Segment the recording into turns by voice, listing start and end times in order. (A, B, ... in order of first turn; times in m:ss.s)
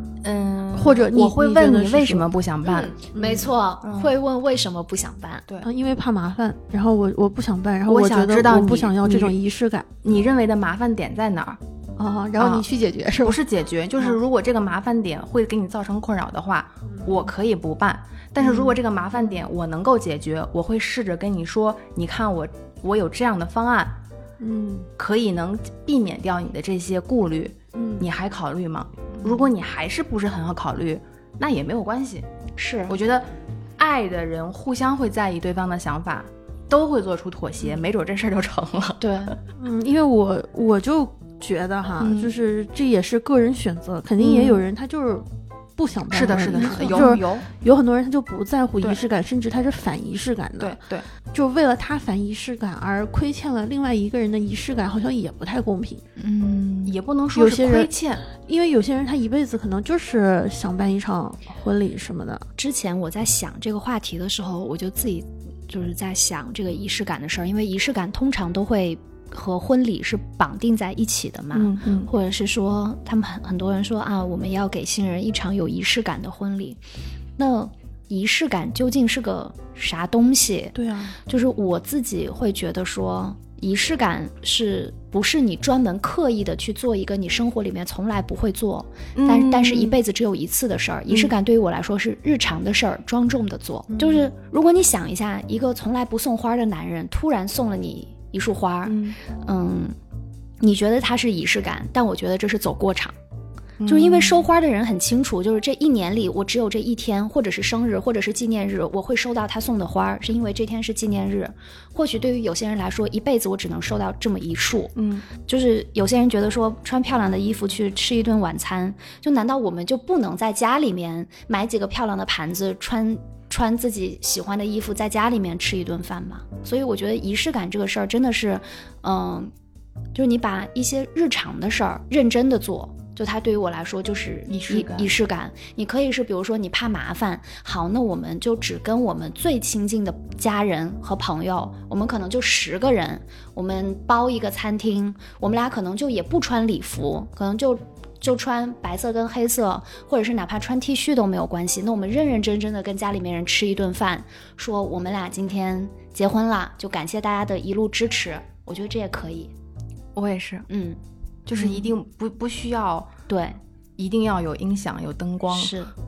0:00.2-0:02.9 A
0:00.7-0:02.3 B
0:02.6-0:05.4 C
0:03.1-0:03.4 B
0:03.8-0:04.1 A
0:05.6-0:10.0 B
0:07.9-0:09.4 A
0:10.0-0:11.6 A
0:12.0-0:13.4 B
0:12.4-0:12.6 A
0:13.2-0:24.0 A
0:18.4-0:18.8 B
0:24.4-0:24.9 B
0:25.0-0:32.2 A
0:27.7-0:28.1 B
0:32.6-0:33.0 C
0:32.9-0:39.4 A
0:39.0-0:39.4 C
0:39.6-0:45.2 B
0:42.0-0:42.3 A
0:44.2-0:44.6 A
0:45.8-0:56.0 B
0:46.1-0:47.5 A
0:46.5-0:47.1 C
0:50.6-0:51.0 A
0:56.2-0:57.0 C
0:56.8-0:58.2 A
0:57.3-1:02.5 B
1:02.6-1:16.8 C
1:11.5-1:12.1 A
1:17.4-1:20.7 C
1:20.7-1:21.1 B
1:21.2-1:39.9 C
1:29.1-1:30.0 A
1:33.9-1:34.3 A
1:38.8-1:39.2 A
1:40.6-1:43.1 C
1:43.8-1:44.5 A
1:43.8-2:09.5 C
1:54.9-1:55.3 A
2:10.1-2:39.5 C
2:14.5-2:15.1 A
2:40.1-2:40.6 A
2:40.7-2:41.0 C
2:41.4-2:43.1 A
2:41.6-2:41.9 C
2:43.3-2:43.6 C
2:44.0-2:45.7 A
2:45.5-2:45.9 C